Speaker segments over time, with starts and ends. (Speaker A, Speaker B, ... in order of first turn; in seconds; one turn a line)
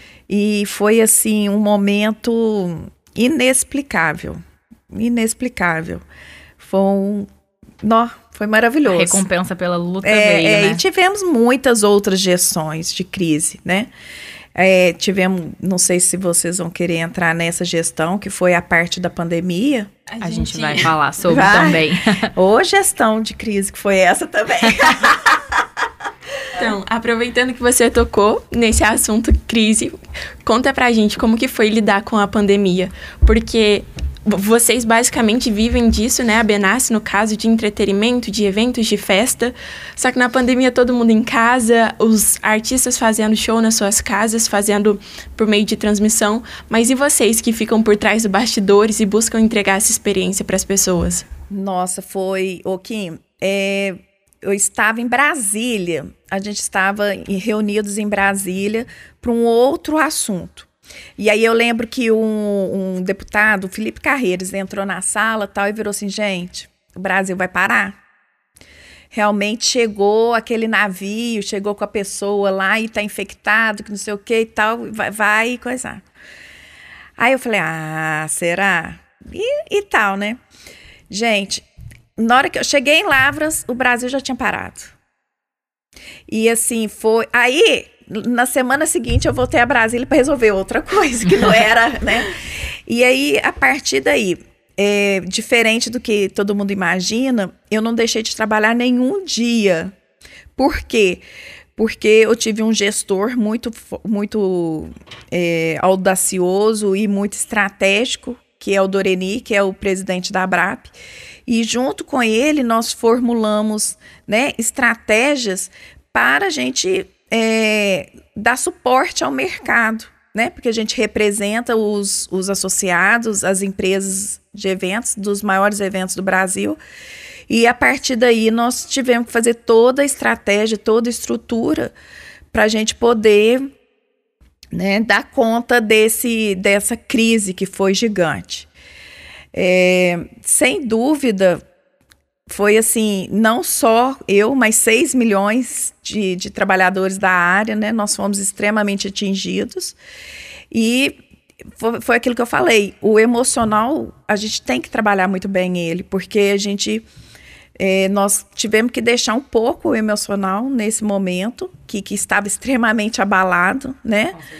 Speaker A: 0.3-6.0
Speaker A: 6.6-7.3
Speaker A: 7.8-9.2
Speaker B: 8.9-10.8
Speaker A: 10.0-13.9
Speaker A: 14.5-19.9
Speaker C: 20.1-20.9
Speaker B: 20.2-22.3
Speaker A: 21.2-25.6
Speaker C: 26.5-51.3
Speaker A: 51.5-68.0
Speaker A: 69.1-76.0
Speaker A: 77.2-80.4
Speaker A: 81.1-81.6
Speaker A: 82.2-84.9
Speaker A: 86.3-99.9
Speaker A: 100.5-101.2
Speaker A: 101.8-110.9
Speaker A: 111.5-126.8
Speaker A: 127.5-131.9
Speaker A: 132.5-133.7
Speaker A: 134.7-138.7
Speaker A: 139.5-141.6
Speaker A: 142.5-149.9
Speaker A: 150.7-151.2
Speaker A: 151.8-157.0
Speaker A: 157.8-164.4